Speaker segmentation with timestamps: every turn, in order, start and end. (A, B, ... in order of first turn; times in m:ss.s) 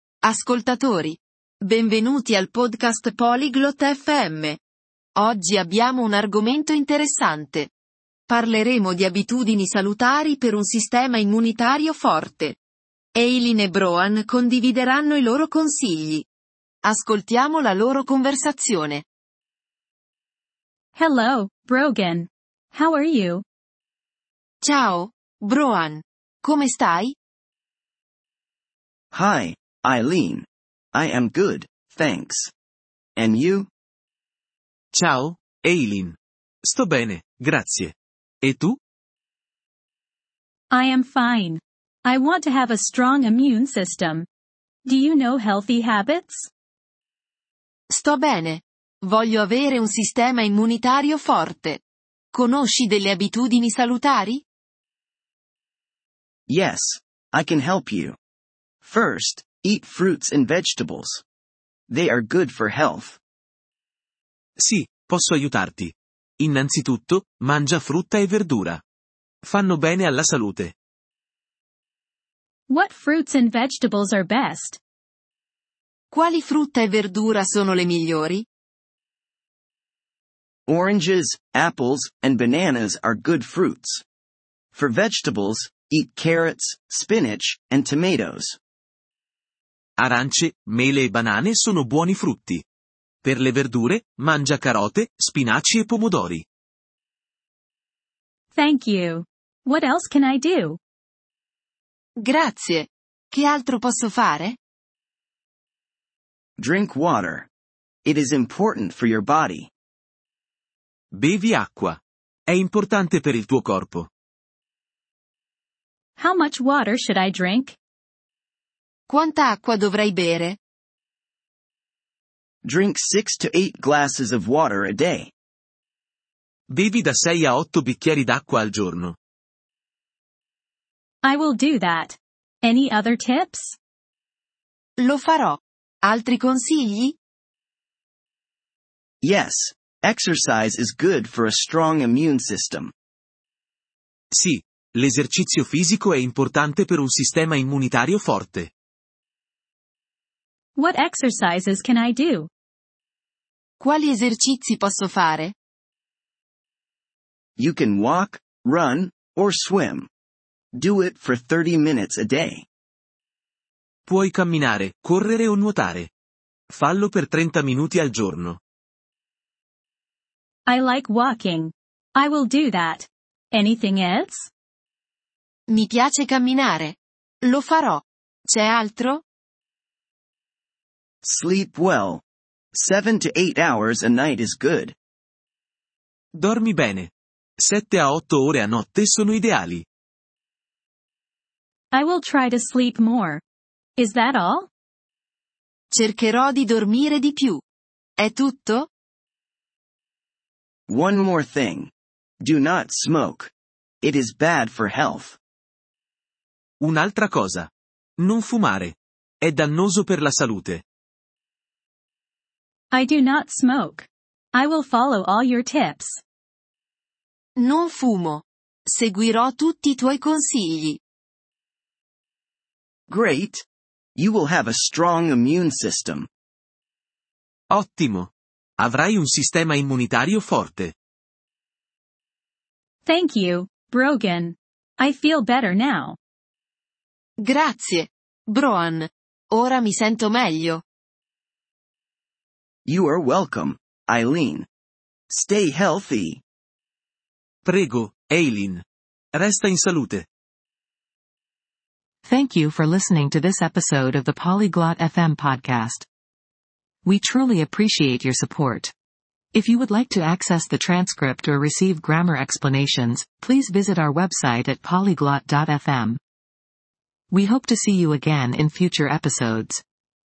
0:00.2-0:04.6 A
0:05.2-0:07.7 A
0:08.3-0:12.6 A
0:13.1-0:16.3 A
0:16.8-0:19.0 A
0:20.9-0:23.4 B
0:24.6-0:27.2 A
0:29.1-0:32.5 C
0:33.2-0:33.7 C
0:34.9-0:38.8 D
0:40.7-0:44.3 B
0:44.8-0:46.5 B
0:47.9-0:51.8 A
0:52.3-0:54.4 A
0:56.5-0:58.2 C
0:58.8-1:01.2 C
1:01.9-1:03.2 C
1:04.6-1:08.8 D
1:09.4-1:10.7 D
1:12.7-1:14.8 B
1:16.1-1:18.4 A
1:20.7-1:24.0 C
1:24.7-1:28.6 C
1:30.0-1:32.6 D
1:33.2-1:36.4 D
1:38.5-1:40.8 B
1:42.2-1:44.6 A
1:46.6-1:47.5 C
1:48.0-1:49.7 C
1:51.1-1:54.1 D
1:56.2-1:57.8 B
1:59.1-2:00.6 A
2:02.6-2:05.3 C
2:06.7-2:09.2 D
2:11.2-2:13.8 B
2:15.0-2:17.2 A
2:19.2-2:22.9 C
2:24.3-2:28.7 D
2:30.8-2:32.5 B
2:33.8-2:35.5 A
2:37.6-2:40.1 C
2:40.7-2:42.6 C
2:44.1-2:46.1 D
2:46.7-2:48.6 D
2:50.7-2:54.5 B
2:55.7-2:59.2 A
3:01.2-3:04.9 C
3:06.4-3:09.8 D
3:11.9-3:13.4 B
3:14.0-3:14.7 B
3:15.9-3:17.6 A
3:18.2-3:18.9 A
3:20.9-3:23.5 C
3:24.0-3:25.4 C
3:26.8-3:30.8 D
3:32.9-3:36.2 B
3:37.6-3:41.0 A
3:43.1-3:43.6 C
3:44.2-3:46.3 C
3:47.7-3:50.9 D
3:53.0-3:56.2 B
3:57.4-4:00.8 A
4:02.8-4:04.7 C
4:05.3-4:06.4 C
4:07.6-4:10.2 D
4:12.2-4:16.0 E
4:17.0-4:18.9 E
4:19.5-4:26.2 E
4:27.3-4:29.8 E